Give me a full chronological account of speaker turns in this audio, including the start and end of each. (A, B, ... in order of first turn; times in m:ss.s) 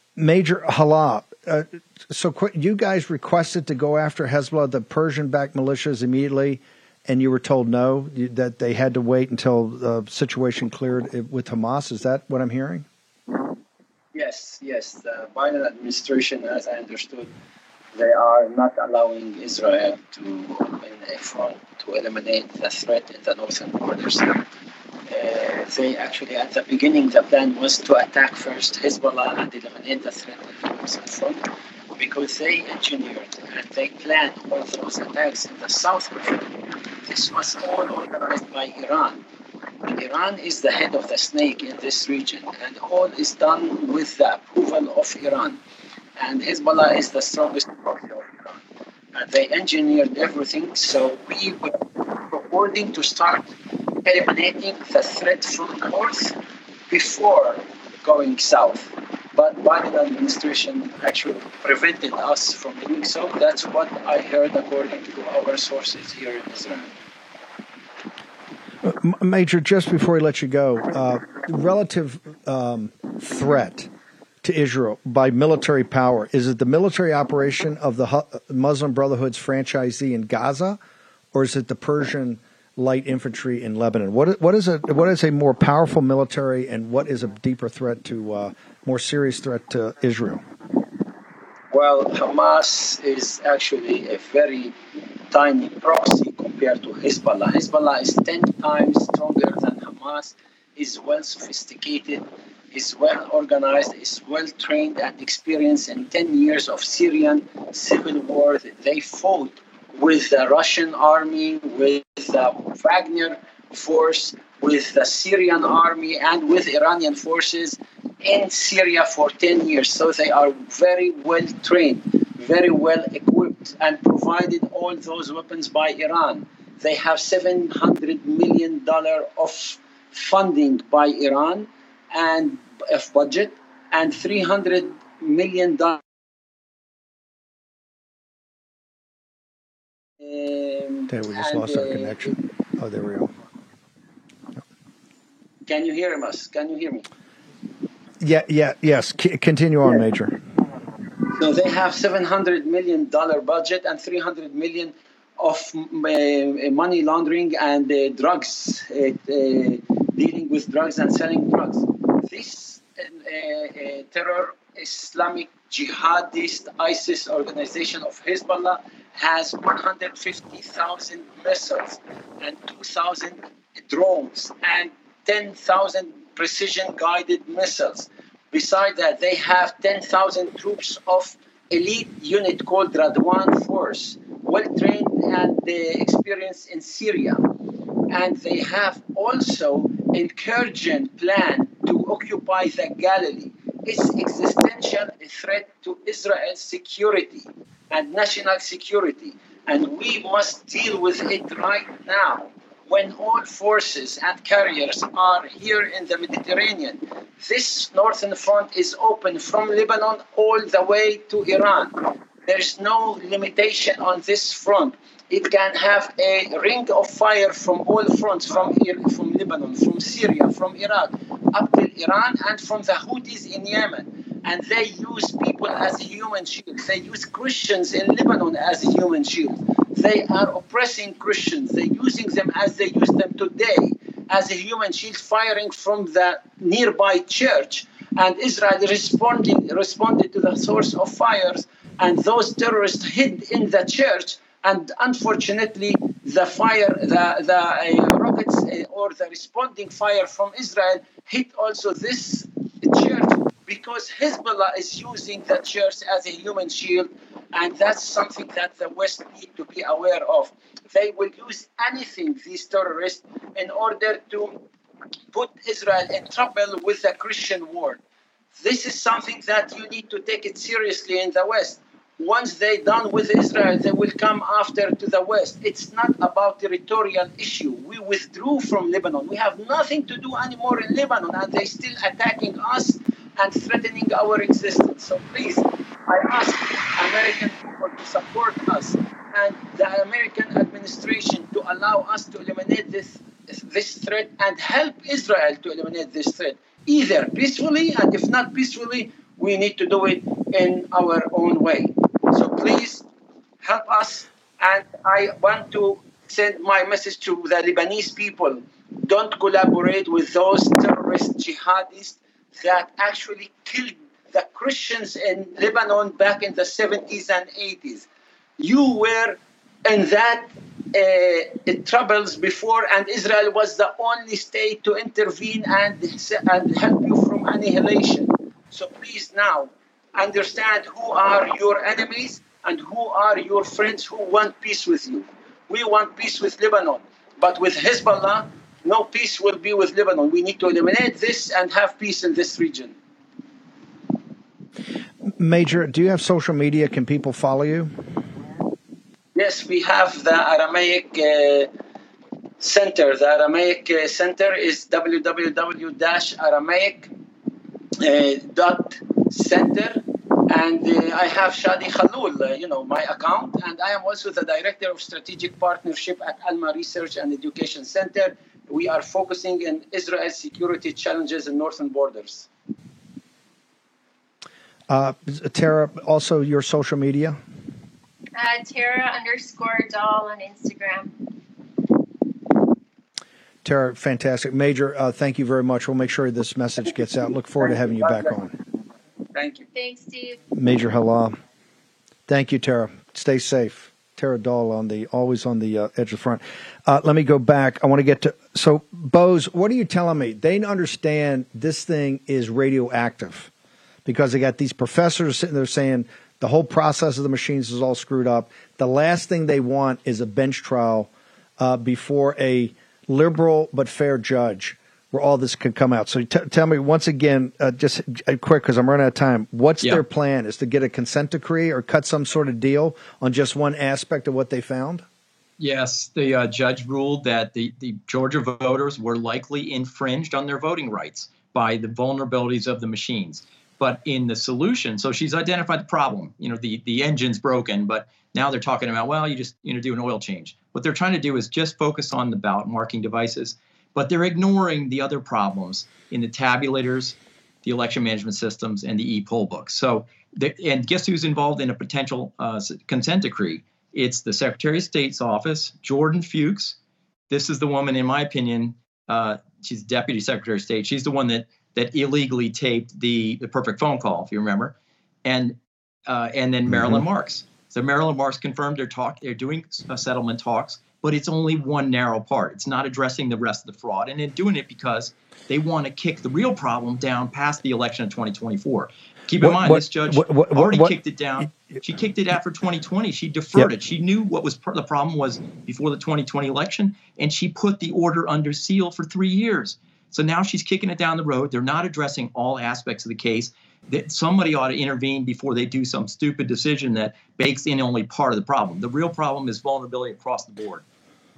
0:00.2-0:12.8 A
0:14.1-0:17.3 B
0:17.9-0:24.4 B
0:25.1-0:31.4 B
0:32.0-0:39.2 B
0:39.8-0:45.6 B
0:46.2-0:48.6 B
0:49.1-0:53.5 B
0:54.0-0:56.4 B
0:56.9-1:06.9 B
1:08.8-1:13.9 A
1:14.4-1:20.8 A
1:21.3-1:30.4 A
1:31.7-1:34.8 B
1:35.3-2:16.0 B
2:20.2-2:22.4 B
2:21.1-2:23.3 A
2:25.7-2:27.0 B
2:28.2-2:30.4 A
2:31.3-3:07.5 B
3:08.1-4:24.6 B
4:25.3-4:28.0 B
4:28.5-5:03.1 B
5:03.6-5:18.0 B
5:18.6-5:43.0 B
5:45.3-5:47.9 A
5:49.3-5:51.7 B
5:52.6-5:57.1 B
5:58.0-6:12.5 B
6:14.9-6:17.4 A
6:18.4-6:21.1 C
6:23.6-6:28.5 A
6:27.6-6:28.3 B
6:29.3-6:29.7 B
6:29.7-6:30.4 C
6:30.5-6:31.4 A
6:32.3-6:43.5 A
6:44.0-7:05.0 A
7:05.6-7:36.8 D
7:37.3-8:20.8 D
7:59.4-8:01.0 A